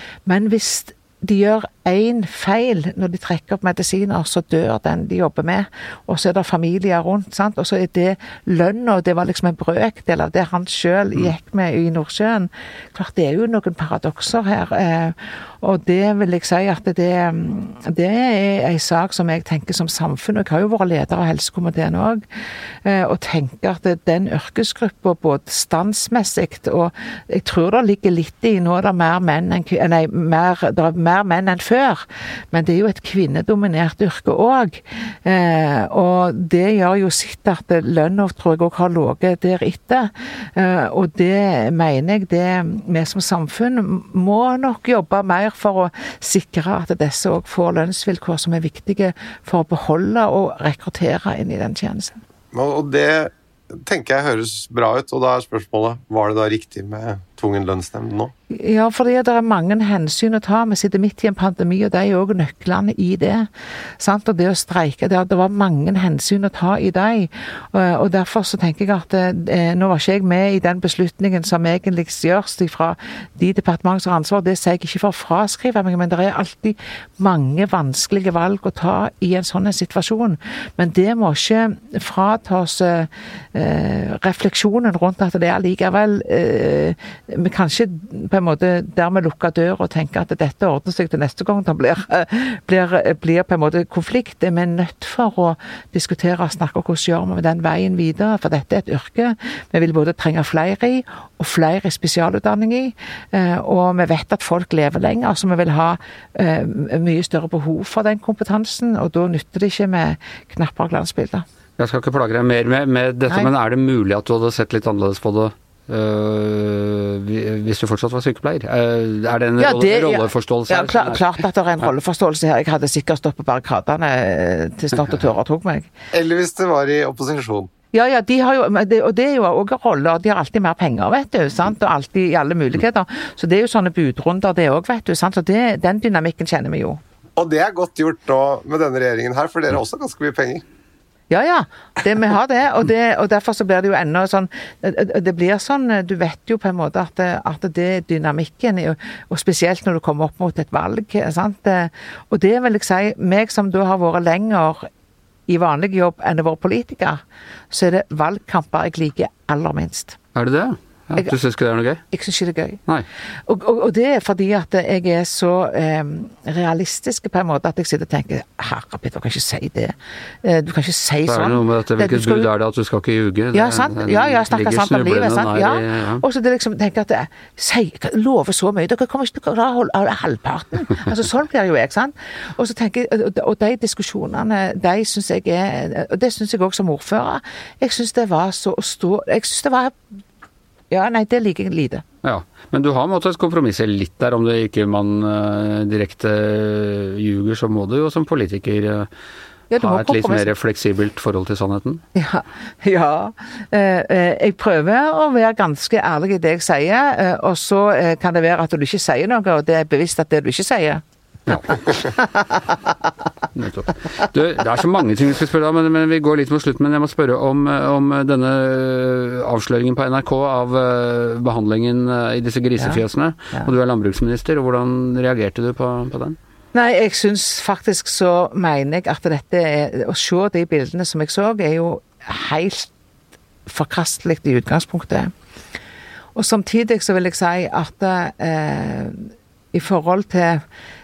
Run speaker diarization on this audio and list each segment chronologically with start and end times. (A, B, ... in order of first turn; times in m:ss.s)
0:00.3-0:22.2 A
0:22.8-0:52.2 A
0:52.5-0:58.3 B
0:58.5-1:03.5 A
1:04.0-1:51.5 A
1:51.8-2:01.3 C
1:59.6-2:05.9 A
2:06.1-2:07.7 B
2:07.9-2:17.0 A
2:17.4-2:20.6 B
2:21.3-2:34.9 A
2:35.5-2:40.2 A
2:40.4-2:42.0 C
2:42.1-2:42.8 A
2:43.5-2:52.5 A
2:51.3-2:56.2 C
2:53.5-3:10.0 A
3:10.9-3:12.0 A
3:12.2-3:19.1 C
3:19.7-3:20.5 A
3:19.8-3:22.0 C
3:22.2-3:31.0 A
3:31.5-3:32.0 C
3:32.0-3:32.6 A
3:33.6-3:46.4 C
3:46.7-3:52.9 A
3:53.7-3:55.3 A
3:56.4-4:00.6 A